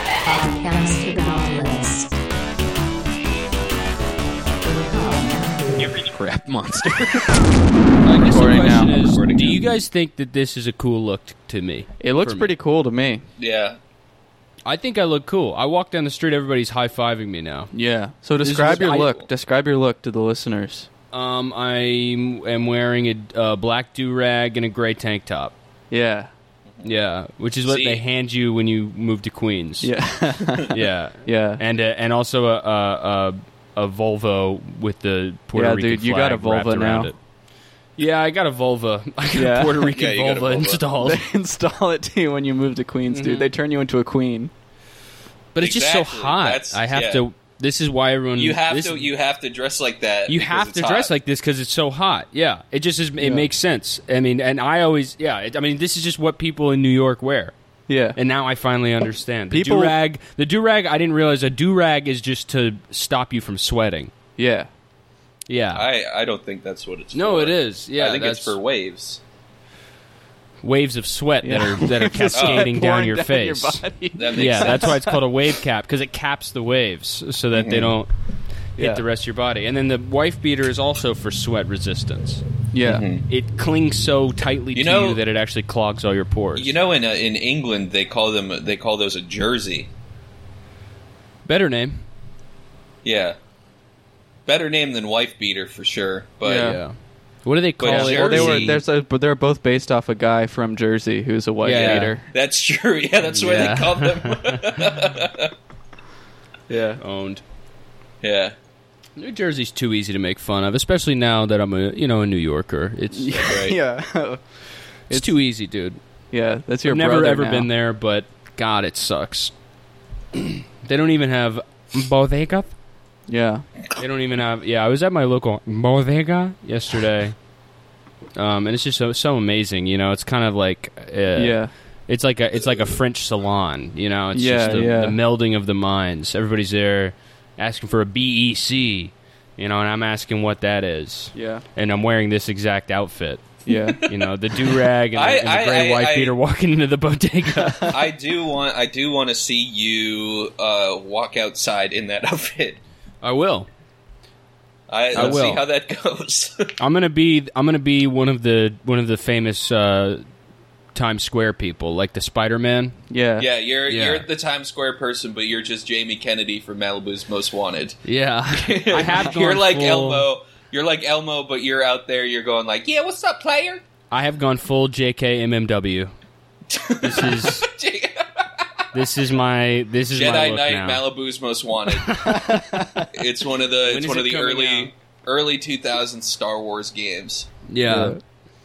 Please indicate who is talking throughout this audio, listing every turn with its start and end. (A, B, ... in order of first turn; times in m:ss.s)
0:00.2-0:02.2 A
0:04.8-0:05.9 A
0:05.7-0:07.4 B
0:08.0-0:09.6 B
0:08.2-0:12.5 C
0:08.3-0:08.9 D
0:12.0-0:13.2 D
0:13.4-0:13.8 B
0:14.7-0:17.7 C
0:17.7-0:20.9 D
0:18.4-0:19.1 C
0:21.1-0:25.5 C
0:25.9-0:26.3 D
0:26.8-0:29.9 C
0:27.7-0:28.0 B
0:29.8-0:31.6 D
0:30.7-0:37.2 C
0:35.5-0:37.1 D
0:38.0-0:41.2 C
0:39.3-0:39.9 D
0:39.9-0:40.9 B
0:41.0-0:44.5 D
0:43.1-0:43.5 C
0:45.5-0:49.0 C
0:45.6-0:47.2 B
0:48.4-0:51.1 B
0:50.3-0:57.5 C
0:53.2-0:53.5 D
0:57.9-0:58.2 D
0:58.2-1:04.1 C
0:59.5-1:00.0 D
1:04.4-1:04.7 D
1:05.5-1:05.8 C
1:05.7-1:09.2 B
1:07.1-1:08.6 C
1:10.6-1:18.1 C
1:11.4-1:15.2 D
1:12.3-1:12.7 B
1:14.2-1:15.0 B
1:17.6-1:17.9 B
1:18.8-1:22.4 C
1:18.8-1:19.0 D
1:22.7-1:23.0 D
1:22.8-1:23.2 B
1:23.3-1:26.7 C
1:24.7-1:25.2 B
1:26.6-1:29.9 B
1:31.5-1:32.0 C
1:33.0-1:33.4 B
1:34.5-1:36.8 B
1:36.4-1:36.8 D
1:36.6-1:36.9 C
1:37.4-1:38.8 C
1:37.8-1:38.8 B
1:37.8-1:42.2 D
1:41.6-1:42.1 C
1:41.7-1:45.5 B
1:43.3-1:44.8 C
1:46.7-1:47.0 D
1:47.0-1:47.4 C
1:48.2-1:48.6 B
1:49.2-1:53.5 C
1:53.1-1:54.4 D
1:53.5-1:53.8 B
1:55.1-1:56.0 C
1:56.3-1:57.7 D
1:56.8-1:59.5 C
2:00.4-2:02.7 C
2:03.3-2:03.6 D
2:04.0-2:07.4 C
2:08.4-2:23.5 C
2:11.4-2:11.7 D
2:14.3-2:15.2 D
2:21.3-2:21.6 D
2:23.7-2:24.0 D
2:23.7-2:26.4 B
2:24.0-2:27.9 C
2:27.8-2:32.8 B
2:33.2-2:33.7 C
2:34.9-2:36.7 B
2:35.1-2:35.6 C
2:36.8-2:40.2 C
2:41.0-2:43.0 C
2:43.1-2:43.5 D
2:43.4-2:53.8 B
2:43.9-2:44.3 C
2:48.0-2:50.2 C
2:54.1-2:56.1 C
2:56.7-2:58.8 B
2:57.0-2:57.7 C
2:58.9-3:01.0 C
3:00.1-3:02.3 B
3:02.0-3:02.6 C
3:02.3-3:03.1 D
3:03.1-3:07.5 B
3:03.9-3:04.9 C
3:07.7-3:08.2 C
3:07.9-3:08.2 D